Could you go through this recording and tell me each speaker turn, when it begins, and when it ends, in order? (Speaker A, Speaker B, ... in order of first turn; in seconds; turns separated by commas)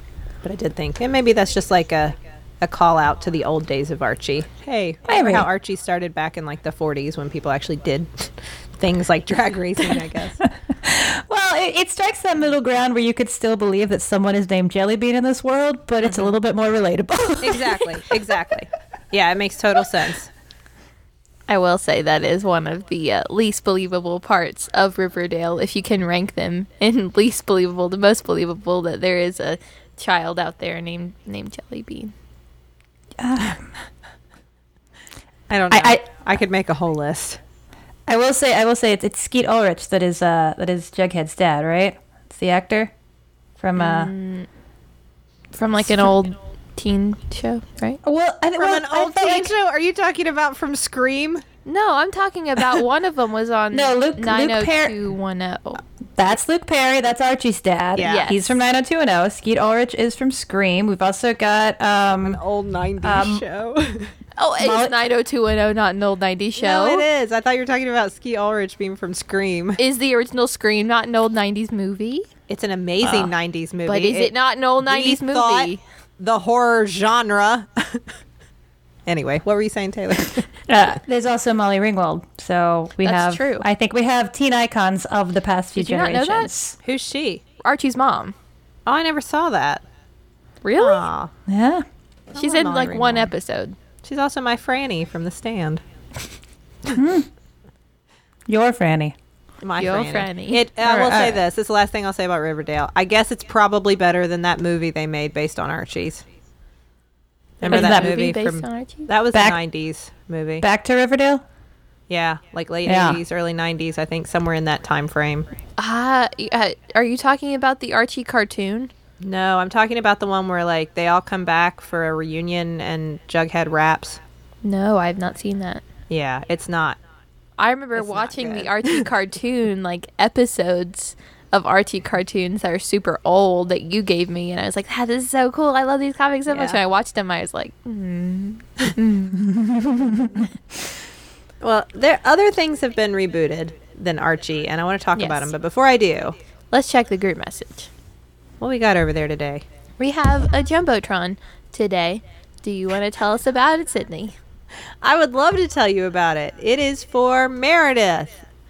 Speaker A: 0.4-10.4, Speaker B: 5.1-5.5, Speaker B: 10.4-18.0, Speaker A: 16.0-16.3, Speaker A: 17.4-20.3, Speaker C: 21.5-32.1, Speaker B: 33.2-33.8, Speaker A: 35.5-37.4, Speaker B: 35.7-36.0, Speaker B: 38.1-42.9, Speaker B: 43.6-44.1, Speaker C: 43.8-44.5, Speaker C: 45.5-48.0, Speaker B: 48.0-49.5, Speaker A: 48.5-51.4, Speaker C: 51.6-55.8, Speaker B: 53.7-55.0, Speaker B: 56.2-62.4, Speaker A: 58.0-58.3, Speaker C: 58.0-58.5, Speaker A: 62.2-64.1, Speaker B: 63.0-63.4, Speaker C: 64.4-67.0, Speaker B: 64.6-65.0, Speaker A: 66.5-69.8, Speaker C: 69.8-72.3, Speaker A: 72.5-78.0, Speaker B: 73.0-73.3, Speaker C: 73.8-75.8, Speaker A: 79.0-80.5, Speaker B: 80.7-86.8, Speaker C: 83.0-83.7, Speaker C: 85.8-86.5, Speaker A: 86.8-87.4, Speaker C: 87.6-88.3, Speaker A: 88.8-89.8, Speaker C: 90.6-91.1, Speaker A: 90.8-91.3, Speaker B: 91.5-91.8, Speaker A: 92.3-93.3, Speaker C: 92.3-93.8, Speaker A: 94.0-95.8, Speaker B: 96.9-97.3, Speaker B: 98.5-99.1, Speaker A: 99.6-106.2, Speaker C: 99.8-100.6, Speaker B: 100.8-101.4, Speaker A: 107.6-110.7, Speaker C: 107.6-109.1, Speaker B: 107.7-108.2, Speaker B: 109.3-109.6, Speaker B: 110.6-111.4, Speaker A: 112.1-115.5, Speaker B: 112.8-113.2, Speaker C: 115.8-118.9, Speaker A: 119.2-124.2, Speaker C: 124.6-125.8, Speaker A: 126.1-127.0, Speaker C: 127.6-139.4, Speaker A: 127.9-129.0, Speaker A: 136.5-136.8, Speaker B: 139.3-140.4, Speaker A: 141.6-146.4, Speaker C: 145.1-145.5, Speaker C: 146.7-147.9, Speaker A: 148.6-149.6, Speaker C: 150.0-154.3, Speaker A: 155.0-158.4